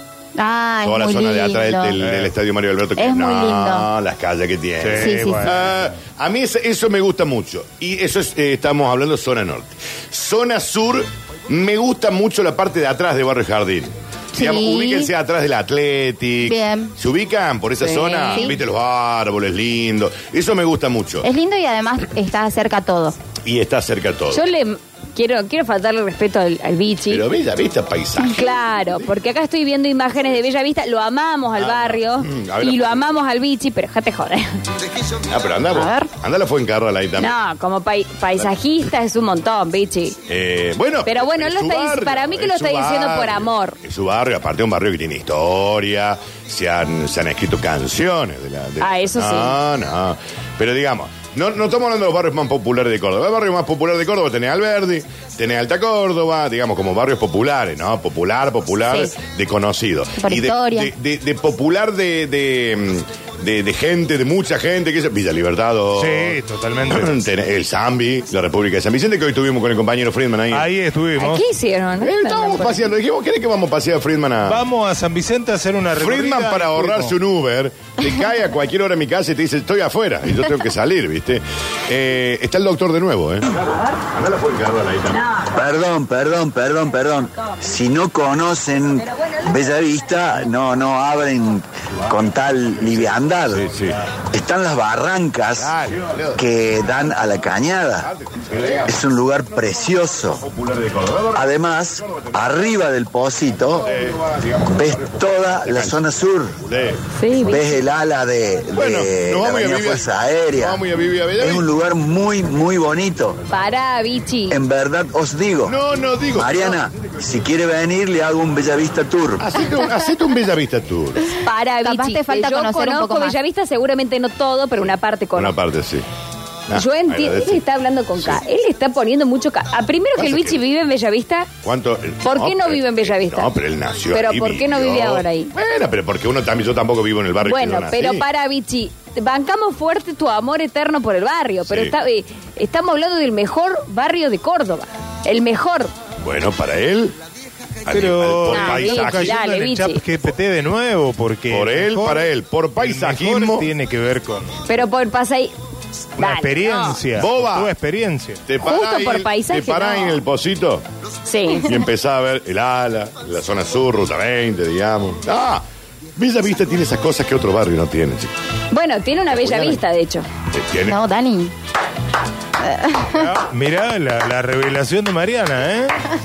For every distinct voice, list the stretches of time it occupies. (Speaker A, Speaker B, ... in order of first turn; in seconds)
Speaker A: 0.4-2.0, 3.0-3.9, 5.0-5.5, 14.3-15.1, 16.4-16.9, 21.2-23.1, 35.7-36.1, 60.2-60.9, 121.8-123.4, 170.9-171.5, 172.6-173.3
Speaker B: 0.8-21.2, 23.5-24.4, 27.1-28.6, 31.6-33.1, 35.3-37.3, 40.3-70.7, 72.0-74.6, 75.9-85.2, 93.5-94.0, 95.6-96.4, 98.1-99.0, 100.4-101.5, 103.8-104.7, 105.6-106.0, 106.7-107.0, 108.7-110.0, 110.5-111.7, 115.7-116.8, 119.4-121.3, 125.3-126.1, 126.7-127.6, 130.2-130.6, 131.6-138.2, 141.7-141.9, 146.2-147.2, 147.9-149.4, 151.5-153.7, 157.2-157.7, 158.5-160.8, 161.6-165.6, 166.2-168.3, 169.3-169.8, 170.5-171.0
Speaker C: 2.0-2.3, 4.8-5.5, 66.0-67.2, 70.5-71.4, 74.5-77.2, 147.9-154.6, 156.2-158.4, 173.2-176.0
Speaker D: 17.8-18.5, 24.3-27.2, 28.2-34.5, 37.2-40.2, 41.0-43.8, 48.8-49.6, 71.2-72.8, 107.2-107.8, 113.5-114.6, 121.4-125.6, 126.7-131.5, 132.2-133.5, 134.1-135.5, 137.4-145.9, 148.5-150.0, 154.7-155.5, 156.2-157.0, 158.6-160.2, 161.3-161.7, 168.7-170.3
Speaker E: 85.5-93.7, 94.3-95.7, 96.4-98.1, 98.9-100.5, 101.3-103.9, 104.7-106.6, 107.5-110.8, 111.4-113.4, 114.5-115.8, 116.3-119.5